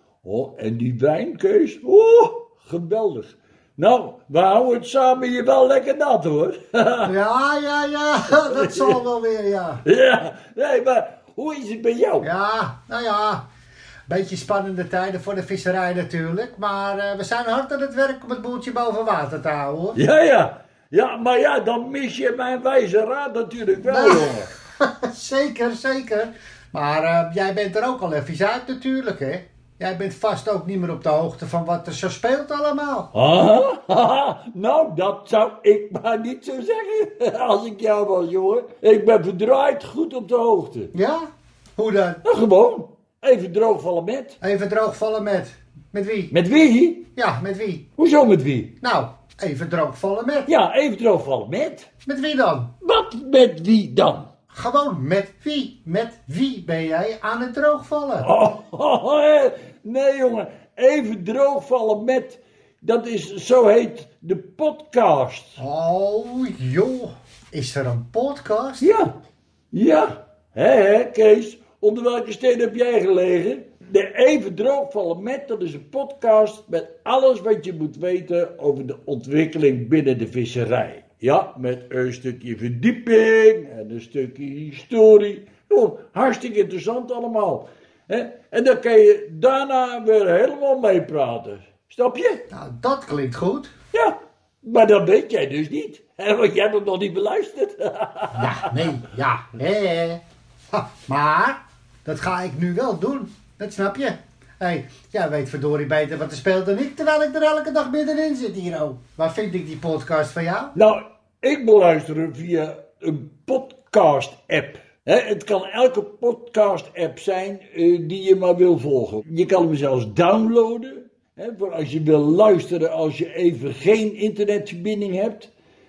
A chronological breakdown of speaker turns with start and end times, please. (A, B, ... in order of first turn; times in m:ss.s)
0:00.2-0:07.1 A
0:07.0-0:09.8 B
0:08.3-0:09.0 A
0:09.8-0:12.3 A
0:12.2-0:13.4 B
0:14.1-0:20.0 B
0:19.9-0:24.5 A
0:23.8-0:33.1 B
0:33.1-0:40.9 A
0:40.9-0:42.2 B
0:42.2-0:44.4 A
0:44.4-0:46.3 B
0:46.3-0:47.0 A
0:47.2-0:47.9 B
0:48.0-0:48.7 A
0:48.8-0:50.5 B
0:50.4-0:51.9 A
0:52.0-0:52.7 B
0:52.8-0:54.3 A
0:54.5-0:58.3 B
0:58.2-1:05.6 A
1:05.6-1:08.9 B
1:08.8-1:09.1 A
1:09.7-1:32.4 A
1:32.5-1:33.7 B
1:33.9-1:38.9 A
1:38.3-1:50.7 B
1:50.7-2:05.5 A